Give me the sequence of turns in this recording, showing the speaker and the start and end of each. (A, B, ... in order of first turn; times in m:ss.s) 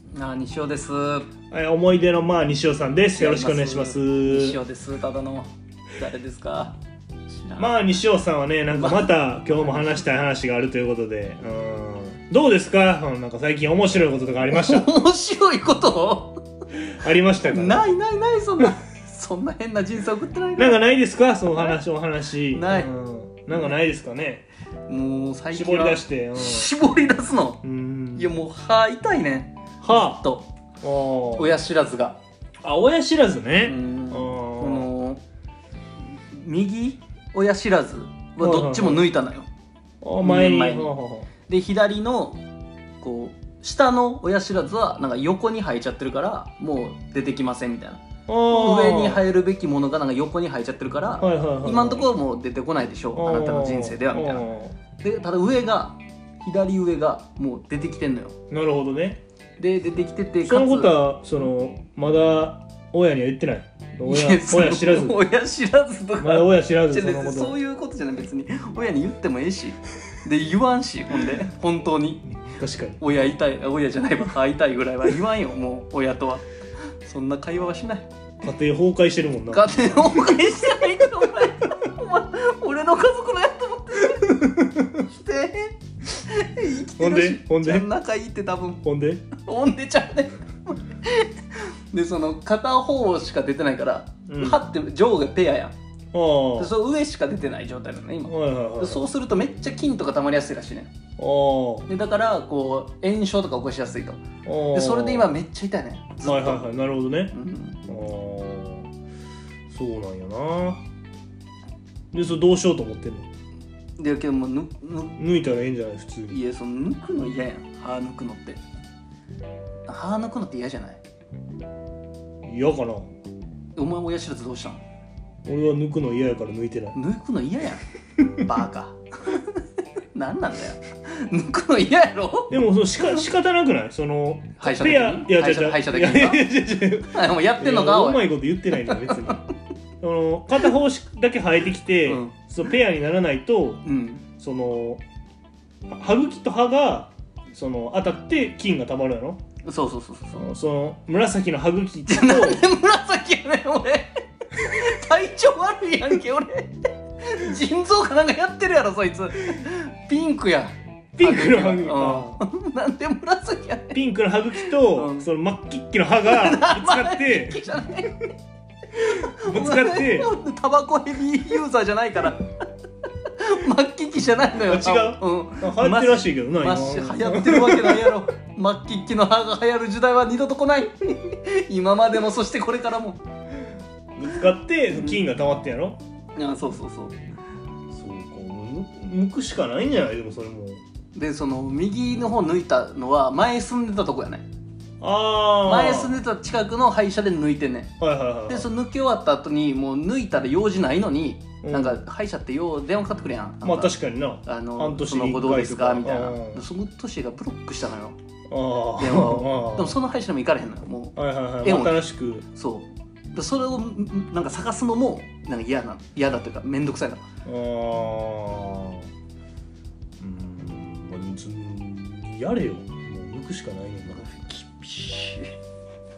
0:00.1-0:01.3 A
0:01.5-0:04.6 B
0:03.1-0:06.8 A
0:07.3-0:07.8 A
0:07.6-0:14.9 B
0:08.7-0:09.9 A
0:14.5-0:16.4 A
0:16.8-0:17.9 B
0:17.5-0:20.8 A
0:20.6-0:24.4 B
0:22.5-0:22.9 A
0:24.9-0:27.6 A
0:25.5-0:26.7 B
0:27.6-0:28.3 B
0:28.2-0:30.5 A
0:29.8-0:30.3 B
0:30.8-0:31.6 B
0:31.4-0:32.2 A
0:32.6-0:34.9 B
0:33.6-0:35.2 A
0:36.3-0:39.5 A
0:38.4-0:39.1 B
0:40.0-0:41.3 B
0:40.2-0:40.9 A
0:41.5-0:42.4 A
0:43.0-0:54.4 A
0:48.3-0:49.2 B
0:51.2-0:52.1 B
0:53.1-0:54.8 B
0:55.0-0:58.3 A
0:58.5-0:59.2 B
0:59.6-1:00.9 A
1:00.4-1:05.2 B
1:04.0-1:12.3 A
1:06.2-1:07.6 B
1:12.3-1:13.0 B
1:13.0-1:16.5 A
1:17.0-1:18.1 A
1:18.4-1:19.8 B
1:19.5-1:28.8 A
1:24.2-1:24.9 B
1:27.0-1:27.9 B
1:28.8-1:29.3 B
1:29.4-1:35.7 A
1:34.3-1:34.6 B
1:36.1-1:36.7 B
1:36.6-1:40.9 A
1:38.2-1:39.1 B
1:41.2-1:41.9 B
1:41.9-1:44.2 A
1:44.4-1:45.3 B
1:44.7-1:46.7 A
1:46.2-1:47.3 B
1:47.3-1:47.8 A
1:47.9-1:48.9 B
1:49.7-1:50.8 B
1:52.1-1:53.3 B
1:54.0-1:55.2 A
1:55.2-1:56.4 B
1:56.3-1:58.6 A
1:59.9-2:01.0 A
2:02.4-2:03.1 B
2:03.8-2:04.8 A
2:05.4-2:07.0 B
2:06.9-2:09.6 A
2:10.1-2:12.5 A
2:12.5-2:19.4 B
2:14.6-2:16.5 A
2:17.1-2:19.4 A
2:20.0-2:23.8 B
2:22.0-2:22.3 A
2:23.8-2:24.2 A
2:24.4-2:25.0 B
2:25.9-2:29.4 B
2:29.6-2:30.4 A
2:30.4-2:32.6 B
2:32.1-2:44.0 A
2:41.2-2:42.4 B
2:43.9-2:47.6 B
2:44.6-2:45.3 A
2:46.2-2:48.3 A
2:48.9-2:52.4 A
2:49.3-2:50.3 B
2:53.2-3:03.2 A
2:54.6-2:58.2 B
3:04.2-3:06.0 B
3:04.9-3:05.2 A
3:06.4-3:07.1 A
3:07.9-3:10.8 B
3:11.1-3:14.4 A
3:15.0-3:16.2 B
3:15.6-3:17.9 A
3:18.0-3:18.7 B
3:18.5-3:28.2 A
3:21.6-3:22.0 B
3:23.6-3:26.6 B
3:28.5-3:30.0 B
3:29.0-3:32.0 A
3:31.2-3:32.5 B
3:32.5-3:37.2 A
3:37.4-3:39.1 B
3:40.2-3:44.2 B
3:44.1-3:45.5 A